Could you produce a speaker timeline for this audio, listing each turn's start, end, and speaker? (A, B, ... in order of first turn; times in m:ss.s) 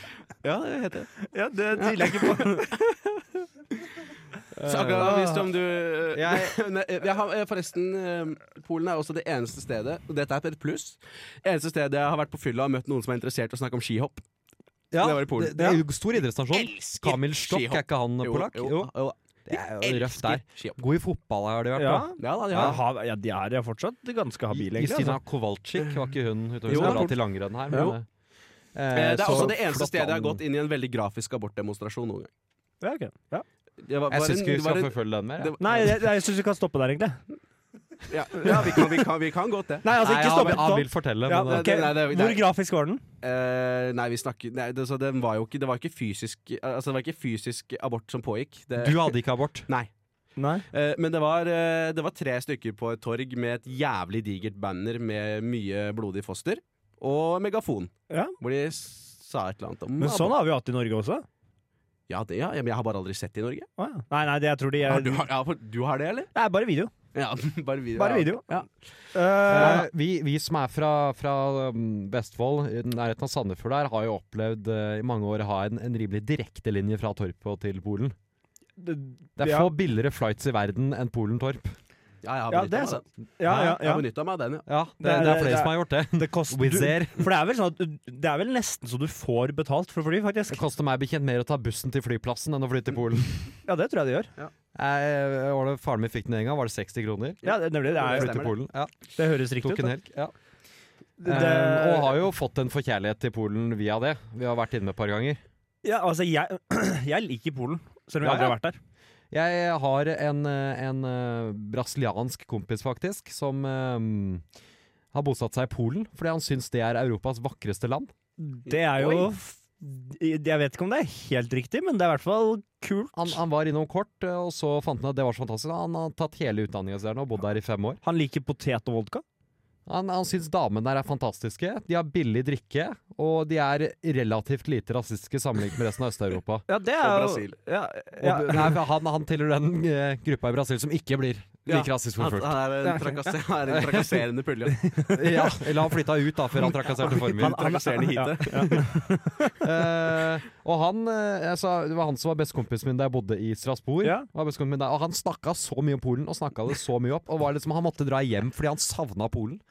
0:00.4-0:01.1 A
0:01.2-0:02.8 B
0:01.8-0:03.1 A
0:04.5-0:05.2 C
0:04.6-0:14.2 A
0:05.0-0:05.4 B
0:06.1-0:06.5 C
0:14.9-0:18.9 C
0:15.0-0:15.6 A
0:16.5-0:20.8 A
0:19.5-0:22.8 C
0:21.8-0:25.2 B
0:22.2-0:22.8 A
0:24.5-0:28.0 C
0:26.7-0:27.2 A
0:26.7-0:27.1 B
0:27.7-0:27.9 B
0:27.7-0:28.0 A
0:28.7-0:30.4 C
0:28.9-0:32.3 A
0:32.8-0:33.4 B
0:33.8-0:36.0 A
0:34.1-0:35.6 C
0:35.6-0:37.2 B
0:38.1-0:39.9 A
0:38.4-0:39.0 B
0:39.8-0:43.0 B
0:39.9-0:41.7 C
0:41.4-0:42.4 A
0:43.2-0:49.2 A
0:48.8-0:49.7 C
0:50.4-0:50.6 B
0:50.7-1:00.4 A
0:58.1-0:58.3 B
1:00.0-1:01.2 B
1:02.1-1:03.7 A
1:03.8-1:05.2 B
1:04.8-1:06.3 A
1:06.3-1:06.9 B
1:07.1-1:08.7 A
1:08.0-1:08.4 B
1:09.1-1:09.9 B
1:09.5-1:09.8 A
1:09.5-1:18.1 C
1:18.8-1:19.7 B
1:19.4-1:21.7 C
1:22.2-1:24.7 A
1:22.5-1:24.0 B
1:23.4-1:23.8 C
1:24.6-1:27.3 C
1:25.0-1:30.6 B
1:30.5-1:33.4 C
1:33.6-1:34.3 B
1:34.7-1:37.4 C
1:37.4-1:38.4 B
1:37.4-1:38.5 A
1:38.0-1:38.9 C
1:39.1-1:39.9 B
1:39.6-1:40.3 C
1:41.2-1:42.2 B
1:41.2-1:45.4 C
1:45.8-1:48.8 B
1:48.2-1:48.6 C
1:49.3-1:54.4 C
1:55.1-1:58.1 C
1:58.4-2:03.4 B
1:58.7-1:59.3 A
2:03.1-2:08.0 C
2:08.0-2:09.2 B
2:09.9-2:16.6 C
2:16.7-2:18.7 B
2:17.0-2:17.6 A
2:18.2-2:22.6 C
2:21.7-2:24.8 A
2:22.8-2:23.4 B
2:23.7-2:24.2 C
2:24.8-2:25.6 B
2:25.1-2:27.6 C
2:26.6-2:29.5 B
2:27.0-2:28.9 A
2:29.6-2:39.6 C
2:34.0-2:34.3 B